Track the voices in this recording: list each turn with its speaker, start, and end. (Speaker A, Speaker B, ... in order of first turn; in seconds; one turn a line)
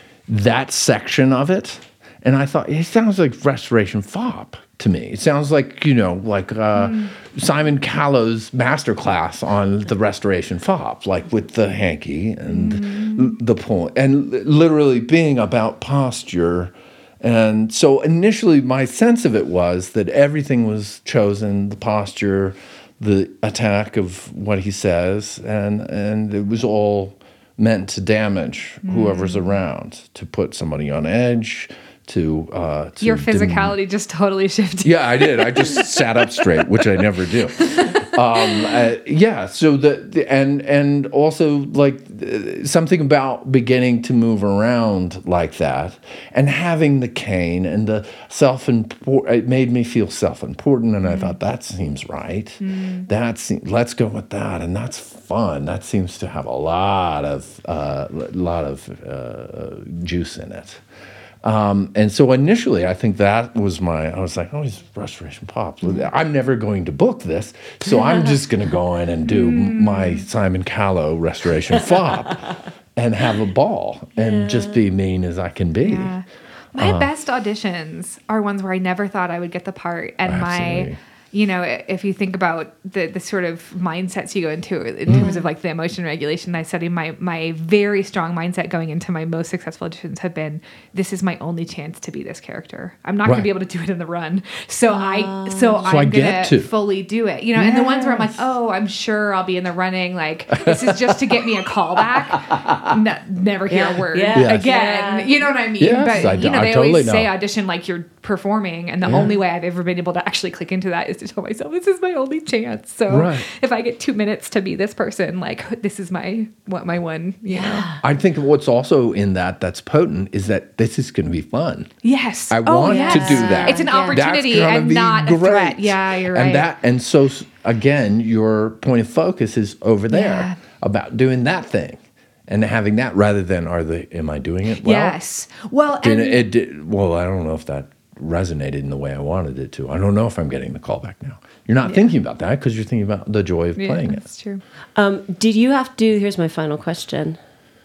Speaker A: 0.3-33.8
Speaker B: 6.8-7.1
Speaker B: 12.5-13.3
Speaker B: 28.8-29.5
Speaker B: 33.0-36.6
Speaker A: 34.8-60.8
Speaker B: 37.6-38.0
Speaker B: 51.0-51.3
Speaker B: 52.6-53.1
Speaker A: 61.4-76.2
Speaker C: 67.9-68.3
Speaker B: 69.3-70.2
Speaker C: 74.2-74.7
Speaker B: 75.8-117.9
Speaker A: 76.8-77.1
Speaker A: 80.2-81.0
Speaker C: 85.1-85.5
Speaker C: 94.9-95.8
Speaker A: 95.8-96.7
Speaker C: 97.6-98.3
Speaker A: 100.5-101.4
Speaker A: 102.3-102.9
Speaker C: 103.7-105.4
Speaker A: 104.3-104.7
Speaker A: 105.8-107.3
Speaker C: 106.2-106.5
Speaker C: 109.0-109.3
Speaker A: 113.1-113.5
Speaker C: 117.5-118.0
Speaker A: 118.0-121.9
Speaker B: 122.0-126.7
Speaker A: 122.5-135.2
Speaker C: 122.8-124.2
Speaker B: 130.1-130.6
Speaker B: 134.8-136.4
Speaker A: 136.0-144.2
Speaker B: 143.8-144.6
Speaker C: 144.9-147.4